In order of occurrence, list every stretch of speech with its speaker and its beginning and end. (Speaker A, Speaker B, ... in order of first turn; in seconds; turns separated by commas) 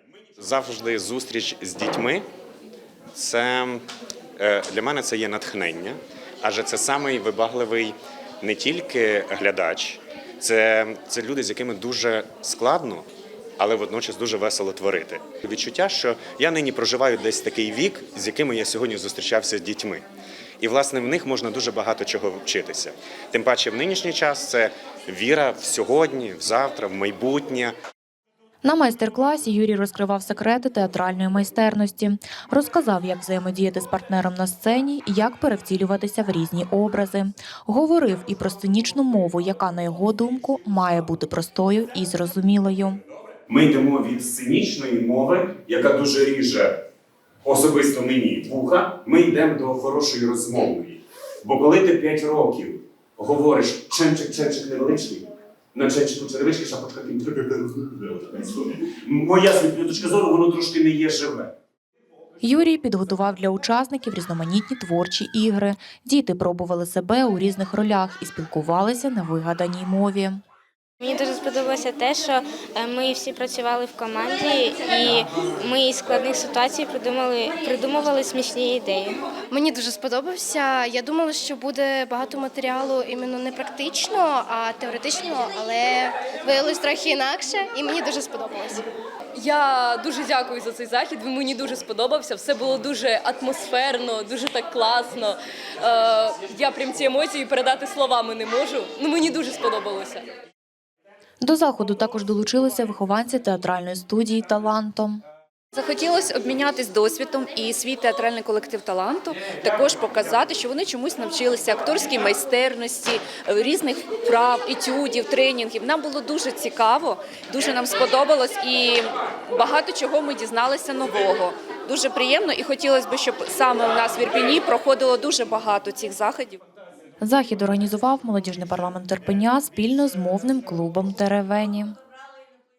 Speaker A: 0.4-2.2, Speaker A: 3.1-3.8, Speaker A: 4.4-13.1, Speaker A: 13.6-20.0, Speaker A: 20.6-27.8, Speaker B: 28.6-43.0, Speaker A: 43.5-46.7, Speaker A: 47.4-61.5, Speaker B: 62.4-70.4, Speaker C: 71.0-79.2, Speaker D: 79.5-88.9, Speaker E: 89.3-100.2, Speaker B: 101.4-105.2, Speaker F: 105.7-126.6, Speaker B: 127.2-131.9